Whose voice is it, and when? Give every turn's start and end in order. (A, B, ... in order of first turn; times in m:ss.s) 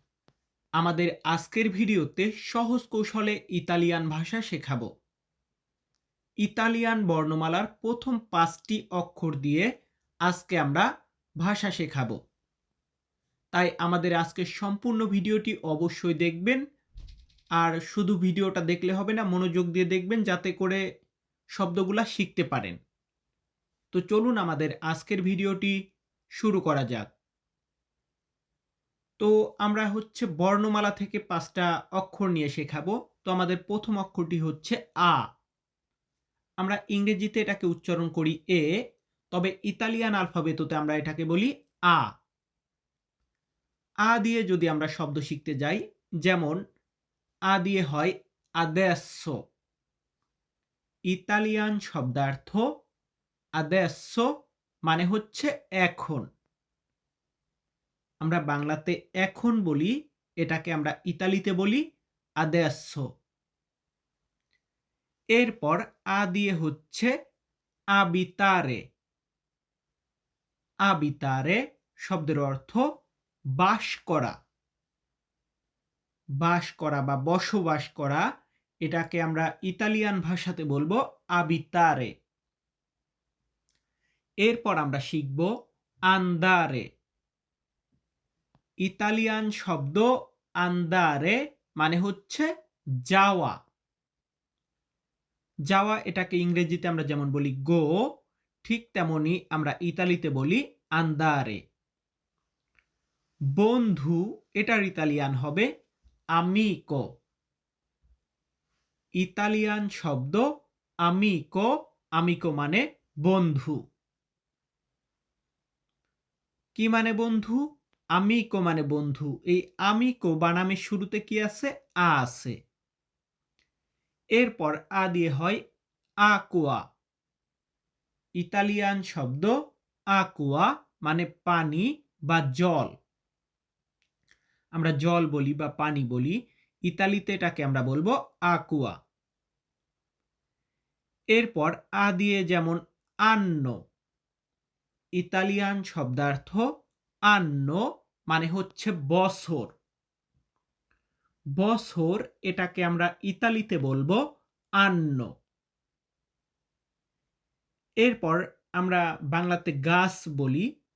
0:00.8-0:04.9 A
0:06.4-0:09.7 A
0:10.2-0:10.9 A
0:11.4-0:12.2 A
0:13.5-0:16.6 A
0:17.6-0:20.8 A
0:21.6-0:22.8 A
0:23.9-0:25.7 A
0:26.4-0:27.1 A
0:29.2-0:35.2 A
0:36.6-0:38.7 A
0:39.3-0:42.1 A
0:44.1-0:46.6 A
0:47.5-0:49.3 A
0:51.1-0:52.6 A
0:53.6-0:54.3 A
0:54.9-0:56.2 A
0:58.2-1:01.8 A
1:02.4-1:03.0 A
1:05.4-1:07.1 A
1:08.0-1:08.8 A
1:10.9-1:12.8 A
1:13.6-1:14.3 A
1:16.4-1:18.2 A
1:18.8-1:22.1 A
1:24.4-1:25.5 A
1:26.1-1:26.8 A
1:28.8-1:30.1 A
1:30.6-1:32.5 A
1:33.1-1:33.5 A
1:35.7-1:37.9 A
1:38.6-1:41.6 A
1:43.5-1:45.7 A
1:46.4-1:47.0 A
1:49.2-1:50.4 A
1:51.0-1:53.8 A
1:56.8-1:57.6 A
1:58.2-2:02.6 A
2:04.4-2:05.6 A
2:06.2-2:06.8 A
2:08.4-2:09.5 A
2:10.1-2:12.9 A
2:14.8-2:16.4 A
2:16.9-2:18.9 A
2:21.3-2:23.7 A
2:25.2-2:26.6 A
2:27.3-2:29.7 A
2:31.6-2:34.2 A
2:34.8-2:35.3 A
2:38.0-2:40.6 A